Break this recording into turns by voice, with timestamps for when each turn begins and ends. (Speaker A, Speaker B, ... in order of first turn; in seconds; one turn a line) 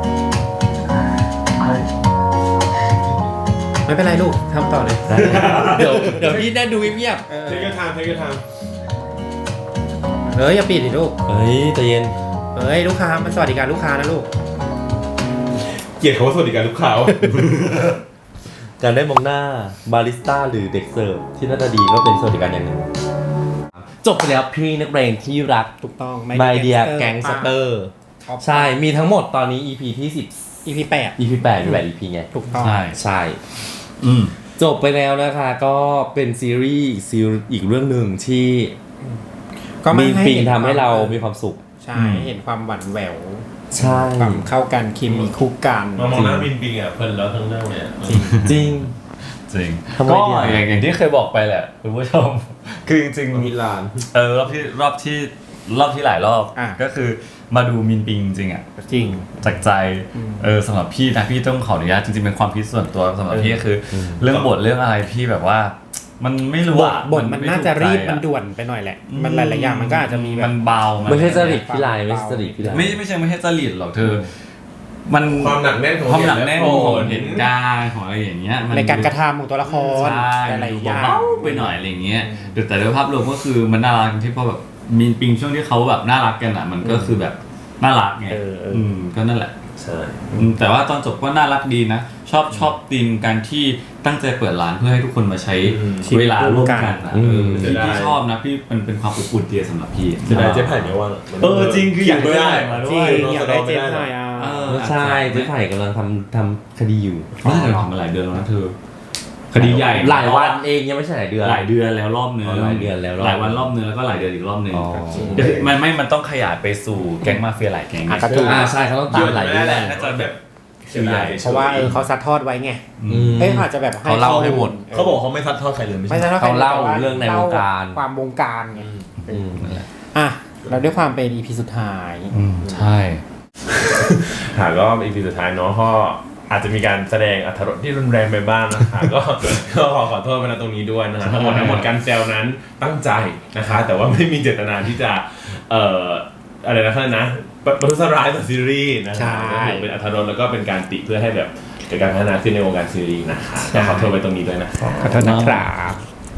Speaker A: 3.9-5.4
Speaker B: 5.1-7.2
Speaker C: 5.2-6.5
Speaker A: 7.3-7.8
Speaker C: 7.5-8.4
Speaker A: 10.3-11.2
Speaker B: 11.3-12.2
Speaker A: 12.5-14.3
Speaker C: 15.7-17.9
Speaker B: 18.8-22.8
Speaker B: 23.8-25.7
Speaker A: 25.8-27.6
Speaker B: 26.3-32.3
Speaker A: 28.2-28.8
Speaker A: 30.6-31.8
Speaker A: 32.3-32.9
Speaker D: 32.6-33.0
Speaker B: 32.9-33.4
Speaker D: 34.0-34.4
Speaker B: 34.6-38.8
Speaker A: 39.8-41.2
Speaker B: 39.9-41.6
Speaker A: 41.8-46.5
Speaker D: 41.9-42.3
Speaker B: 43.7-44.5
Speaker C: 45.1-45.3
Speaker C: 46.0-48.5
Speaker A: 48.0-48.4
Speaker B: 48.4-48.9
Speaker D: 49.5-53.5
Speaker B: 50.0-50.7
Speaker B: 53.3-54.0
Speaker D: 54.1-58.6
Speaker A: 58.8-59.3
Speaker D: 59.4-68.2
Speaker A: 60.1-60.5
Speaker B: 63.3-64.2
Speaker C: 64.3-64.5
Speaker A: 66.7-70.5
Speaker D: 69.1-71.6
Speaker B: 71.1-73.0
Speaker A: 71.1-72.9
Speaker D: 72.7-74.3
Speaker D: 75.1-79.1
Speaker C: 75.3-77.5
Speaker A: 78.7-82.6
Speaker D: 79.7-89.5
Speaker A: 86.8-87.2
Speaker A: 88.3-89.0
Speaker C: 89.8-90.2
Speaker D: 90.4-103.4
Speaker C: 95.6-96.1
Speaker A: 96.0-97.0
Speaker B: 97.1-97.8
Speaker C: 97.6-98.2
Speaker C: 100.3-104.1
Speaker A: 102.8-104.6
Speaker D: 104.4-105.5
Speaker B: 104.7-107.5
Speaker A: 107.4-107.9
Speaker D: 107.4-108.8
Speaker D: 109.5-110.6
Speaker B: 109.5-111.7
Speaker D: 111.4-120.3
Speaker B: 112.4-113.7
Speaker B: 114.7-115.7
Speaker A: 115.1-115.5
Speaker A: 118.1-118.7
Speaker B: 118.3-120.0
Speaker C: 119.1-122.0
Speaker D: 120.9-121.4
Speaker A: 121.4-122.8
Speaker D: 123.0-123.5
Speaker B: 123.1-124.8
Speaker A: 123.4-125.2
Speaker C: 124.2-126.4
Speaker A: 126.1-128.9
Speaker B: 126.3-128.0
Speaker C: 128.8-129.1
Speaker D: 129.2-129.9
Speaker B: 129.3-129.7
Speaker A: 130.1-132.3
Speaker D: 132.3-133.2
Speaker C: 133.7-155.2
Speaker D: 141.2-141.9
Speaker A: 149.1-149.9
Speaker A: 153.7-154.1
Speaker D: 153.7-154.0
Speaker A: 155.0-156.0
Speaker D: 155.1-155.7